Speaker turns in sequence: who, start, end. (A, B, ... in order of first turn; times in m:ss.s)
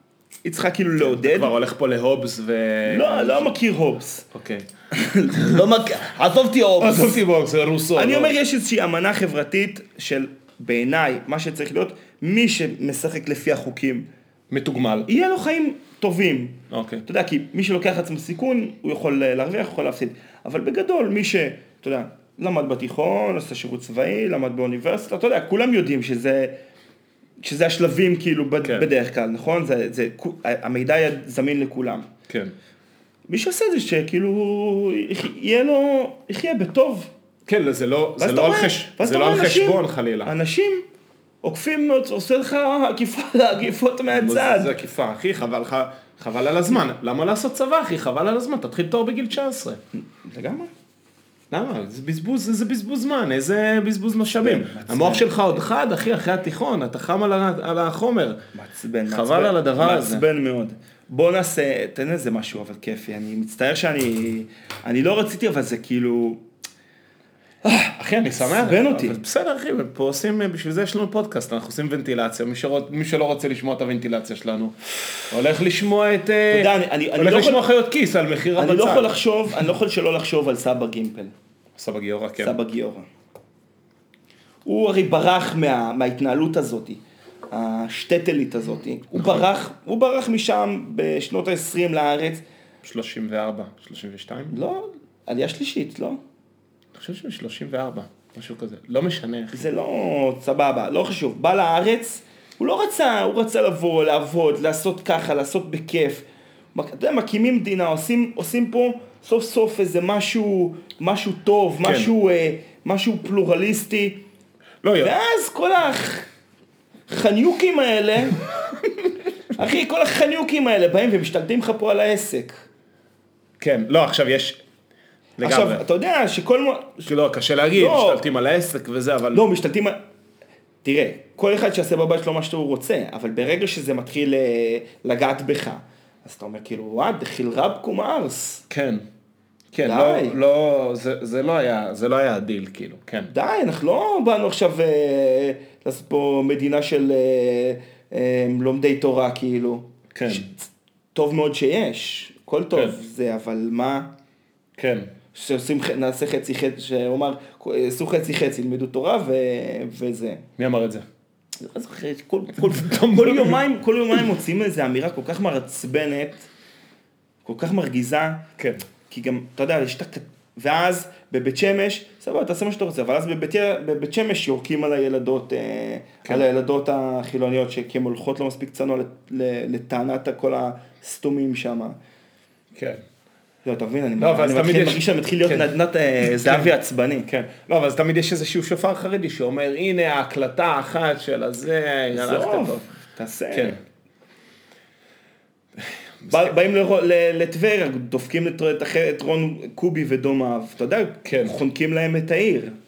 0:00.4-0:01.5 A
0:01.0-0:03.6 B
0:02.9-0:04.3 A
0:04.3-0:04.7 B
0:04.9-0:07.2 A
0:05.4-0:05.6 B
0:06.8-0:08.3 B
0:07.9-0:14.1 A
0:14.5-0:15.1 B
0:15.1-0:26.6 A
0:16.7-0:17.0 B
0:27.4-0:32.1 A
0:28.6-0:28.9 B
0:32.3-0:32.6 B
0:33.3-0:37.1 A
0:37.5-0:40.3 B
0:38.2-0:40.8 A
0:41.4-0:44.7 A
0:44.1-0:49.8 B
0:50.0-0:50.7 A
0:51.5-0:58.4 B
0:54.4-0:55.7 A
0:58.5-1:06.4 A
0:59.1-1:00.2 B
1:07.6-1:09.2 A
1:08.0-1:19.2 B
1:16.5-1:17.6 A
1:18.6-1:21.3 A
1:21.8-1:22.6 B
1:22.4-1:23.1 A
1:24.7-1:27.0 A
1:27.5-1:32.4 A
1:29.2-1:29.4 B
1:32.8-1:34.6 B
1:34.5-1:36.2 A
1:36.9-1:39.7 B
1:39.5-1:46.2 A
1:46.8-1:54.2 A
1:51.8-1:52.1 B
1:54.8-1:55.1 B
1:55.0-1:56.3 A
1:57.1-1:58.4 A
1:59.6-2:02.6 A
2:03.6-2:04.6 B
2:05.4-2:05.8 B
2:05.4-2:07.1 A
2:07.0-2:09.4 B
2:07.8-2:08.2 A
2:09.3-2:10.0 A
2:10.8-2:18.6 A
2:18.7-2:19.0 B
2:19.7-2:23.3 B
2:19.8-2:20.4 A
2:23.3-2:30.6 A
2:30.1-2:30.5 B
2:31.2-2:34.1 A
2:34.8-2:35.1 B
2:35.3-2:40.4 A
2:40.6-2:41.1 B
2:41.6-2:46.5 A
2:42.5-2:43.7 B
2:47.4-2:48.5 A
2:48.6-2:48.8 B
2:49.1-3:02.0 A
3:02.7-3:03.0 B
3:03.6-3:07.3 A
3:04.2-3:06.7 B
3:07.3-3:12.8 B
3:12.1-3:13.8 A
3:13.5-3:13.8 B
3:15.8-3:16.5 B
3:16.3-3:22.7 A
3:21.2-3:21.6 B